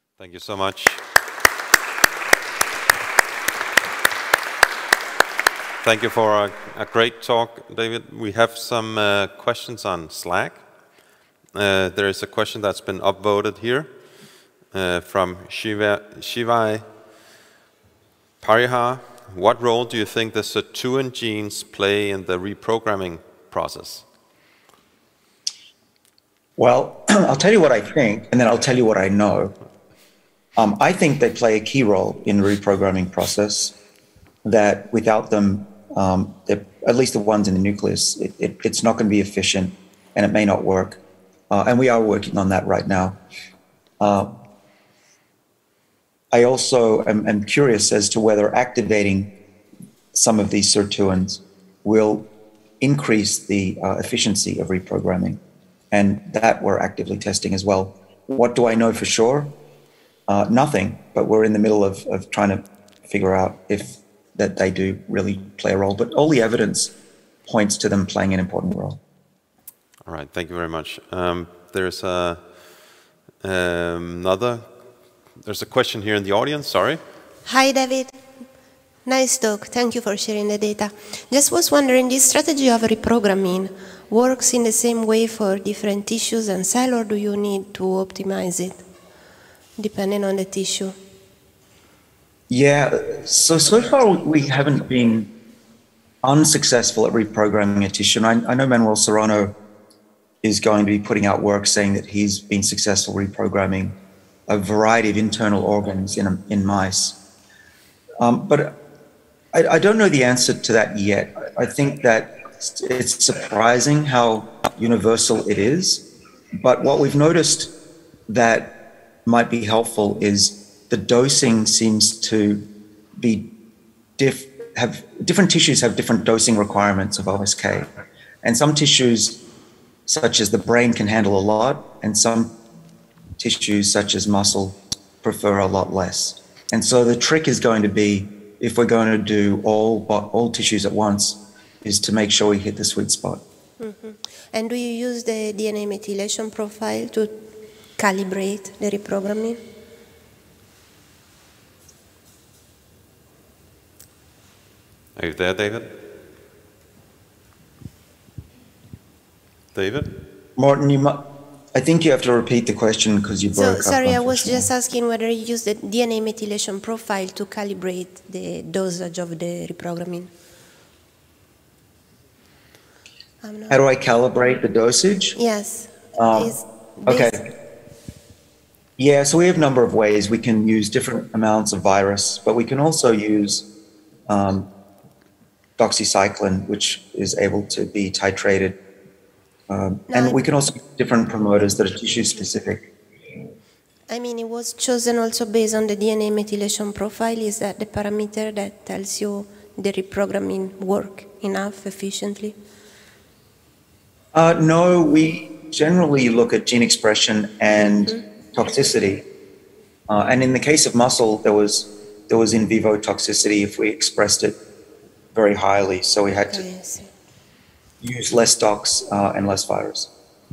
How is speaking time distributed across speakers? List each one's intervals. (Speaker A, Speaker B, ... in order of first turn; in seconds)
Speaker A: 0.2-1.0, 5.8-10.6, 11.5-13.9, 14.7-16.8, 18.4-24.0, 70.0-72.5, 73.4-74.8, 75.4-77.0, 155.2-155.9, 159.7-160.1
Speaker B: 26.6-29.6, 30.6-33.8, 34.5-43.2, 44.0-44.4, 46.3-49.4, 50.1-52.3, 52.8-55.4, 55.9-59.5, 60.3-66.9, 67.5-69.0, 92.5-95.3, 96.2-99.5, 100.4-104.0, 104.5-107.2, 108.2-108.8, 109.5-116.0, 116.6-117.7, 118.3-123.5, 124.2-127.9, 128.4-129.4, 130.1-132.6, 133.4-143.4, 160.6-164.7, 173.7-175.4, 176.2-177.5, 179.0-183.7, 184.3-184.7, 185.8-188.8, 189.7-192.9, 204.3-209.3, 210.1-214.6, 215.3-216.7, 218.0-220.1
Speaker C: 77.5-78.2, 79.0-88.8, 89.8-91.0, 143.8-147.3, 148.0-149.6, 163.5-170.3, 173.4-173.8, 175.4-177.4, 190.1-190.4, 194.1-202.6, 216.5-217.1